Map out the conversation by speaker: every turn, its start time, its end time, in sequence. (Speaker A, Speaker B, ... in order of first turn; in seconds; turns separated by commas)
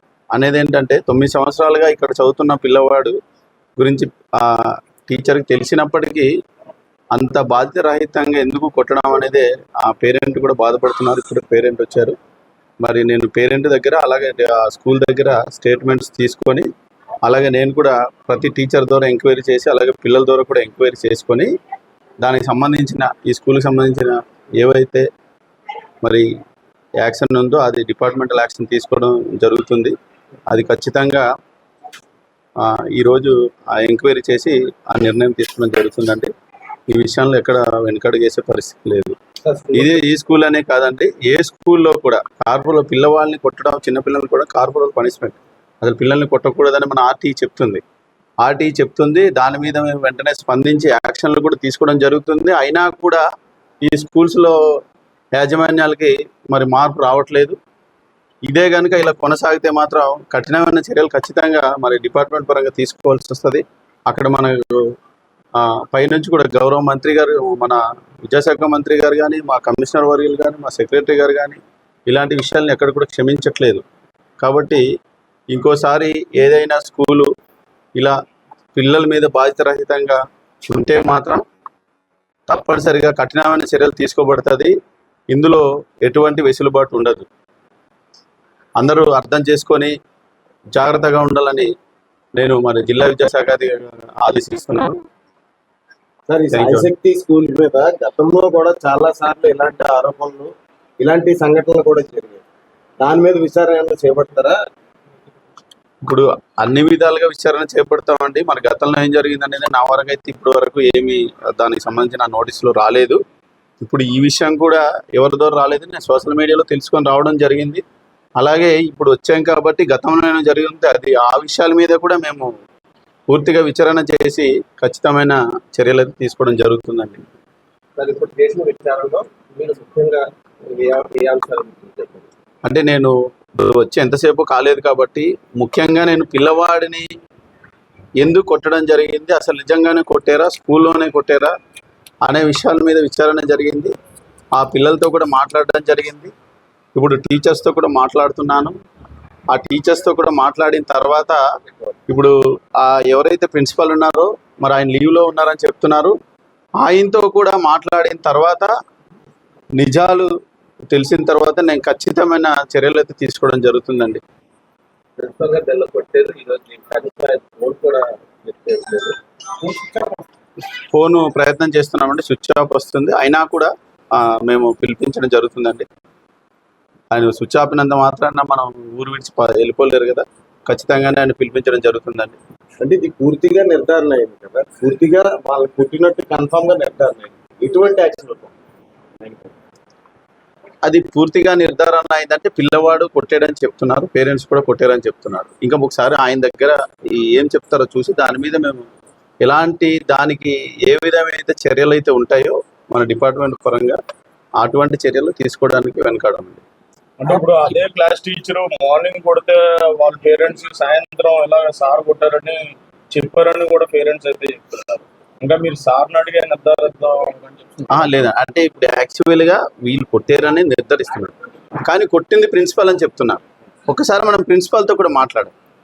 Speaker A: 0.3-3.2, Speaker A: 3.8-6.3, Speaker A: 7.1-12.2, Speaker A: 12.8-16.7, Speaker A: 17.2-21.5, Speaker A: 22.2-25.1, Speaker A: 27.0-29.9, Speaker A: 30.5-31.3, Speaker A: 32.6-36.3, Speaker A: 36.9-39.1, Speaker B: 39.5-39.9, Speaker A: 39.7-47.8, Speaker A: 48.4-53.2, Speaker A: 53.9-54.6, Speaker A: 55.3-57.6, Speaker A: 58.5-64.8, Speaker A: 65.6-73.8, Speaker A: 74.4-74.8, Speaker A: 75.5-77.3, Speaker A: 78.8-81.4, Speaker A: 82.5-84.7, Speaker A: 85.3-87.2, Speaker A: 88.8-89.9, Speaker A: 90.8-91.7, Speaker A: 92.4-95.0, Speaker B: 96.3-102.4, Speaker A: 96.5-96.9, Speaker B: 103.0-104.6, Speaker A: 106.0-113.2, Speaker A: 113.8-117.8, Speaker A: 118.4-122.5, Speaker A: 123.3-127.2, Speaker B: 128.0-132.3, Speaker A: 132.7-137.1, Speaker A: 138.2-141.5, Speaker A: 142.2-143.9, Speaker A: 144.6-146.3, Speaker A: 146.9-148.7, Speaker A: 149.5-151.4, Speaker A: 152.1-156.2, Speaker A: 156.8-158.7, Speaker A: 159.8-160.3, Speaker A: 160.9-164.2, Speaker B: 165.2-170.2, Speaker A: 170.9-175.9, Speaker A: 177.1-182.4, Speaker B: 182.8-188.5, Speaker B: 189.2-189.5, Speaker A: 190.8-198.8, Speaker A: 199.4-204.0, Speaker A: 204.6-206.6, Speaker C: 207.2-212.6, Speaker C: 213.1-218.0, Speaker A: 217.9-225.5